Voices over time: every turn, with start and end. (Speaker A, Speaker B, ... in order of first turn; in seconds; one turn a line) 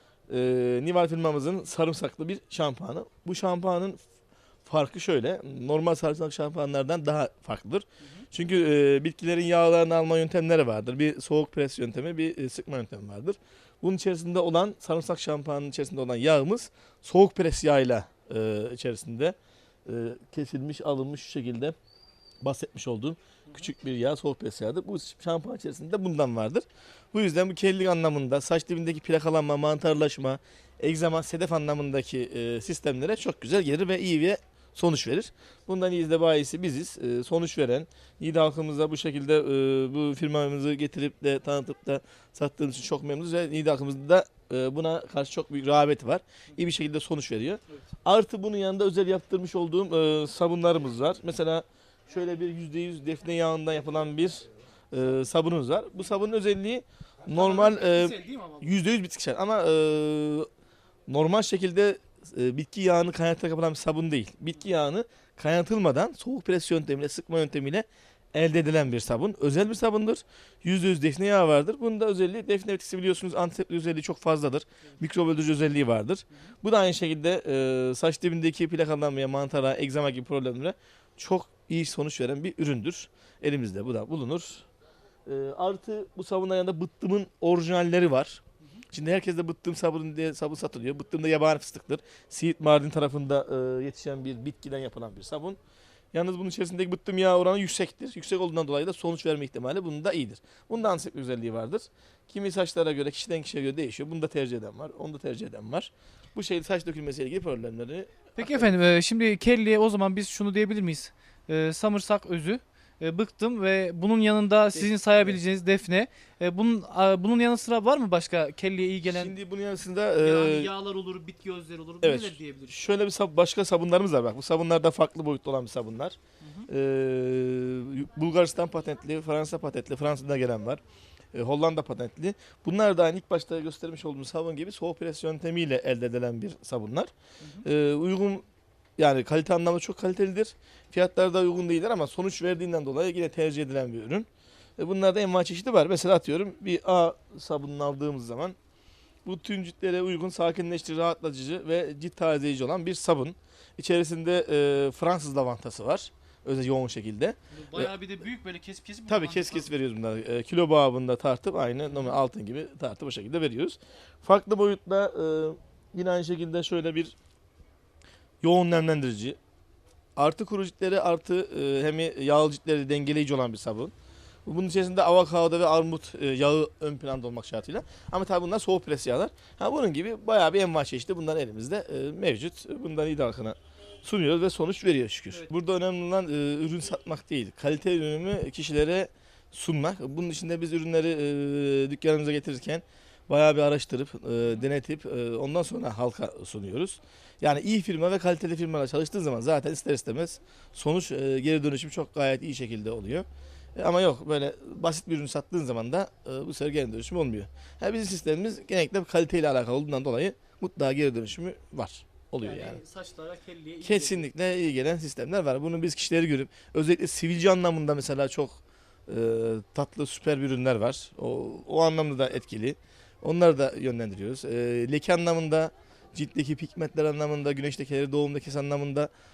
Speaker A: 0.3-4.0
Speaker A: 4.6-21.8
Speaker A: 22.4-60.5
Speaker B: 57.3-58.8
Speaker A: 61.1-84.7
Speaker A: 85.2-95.6
Speaker A: 96.1-108.8
Speaker B: 108.4-119.3
Speaker A: 114.7-115.4
Speaker A: 119.0-120.7
Speaker B: 120.2-122.8
Speaker A: 122.0-130.8
Speaker B: 126.4-126.7
Speaker A: 131.3-138.4
Speaker B: 137.4-137.7
Speaker A: 139.0-144.3
Speaker A: 144.8-148.6
Speaker A: 149.2-157.9
Speaker B: 157.5-159.7
Speaker A: 159.1-167.1
Speaker B: 161.9-162.2
Speaker A: 168.4-169.4
Speaker A: 170.2-173.9
Speaker A: 174.4-203.2
Speaker A: 203.8-212.8
Speaker B: 212.4-214.3
Speaker A: 213.8-229.1